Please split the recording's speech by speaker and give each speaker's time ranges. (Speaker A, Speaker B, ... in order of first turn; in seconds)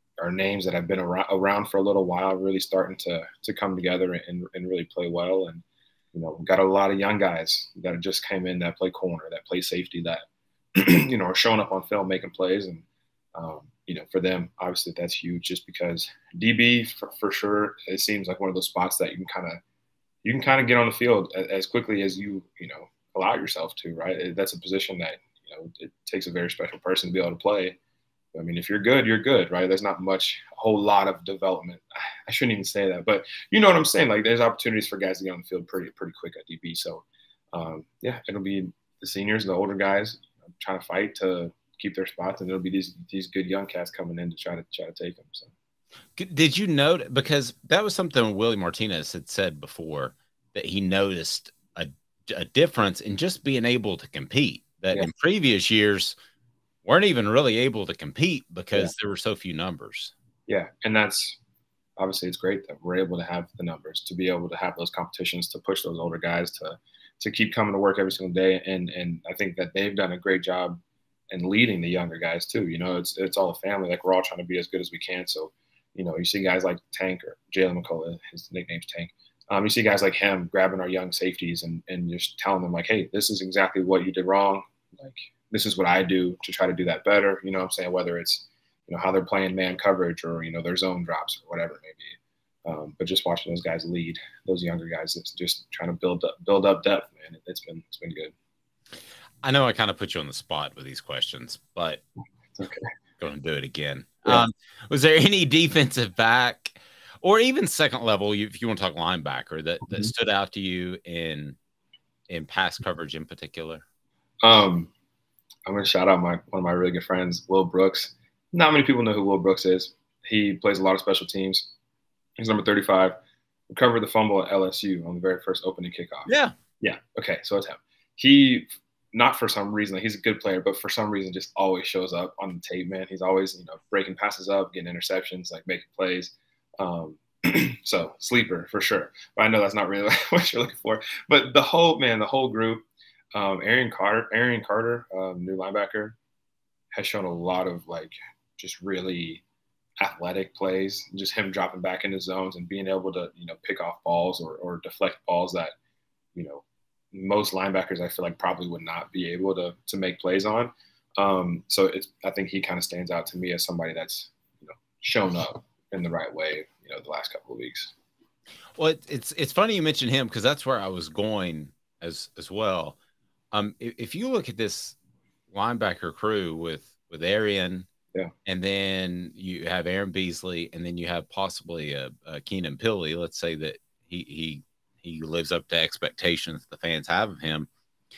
Speaker A: 0.2-10.3, 10.8-19.6, 20.2-27.8, 28.3-45.5, 60.5-61.4, 62.0-70.8, 71.3-98.3, 102.5-102.8, 114.4-114.9, 115.7-121.7, 122.4-123.2, 123.7-146.2, 146.9-149.4, 150.0-155.7, 156.3-167.9
Speaker B: 46.2-56.1, 56.8-60.1, 99.4-102.0, 103.2-111.6, 112.3-113.8, 126.3-126.5, 168.8-173.0, 173.5-175.0, 175.5-177.9, 178.5-187.7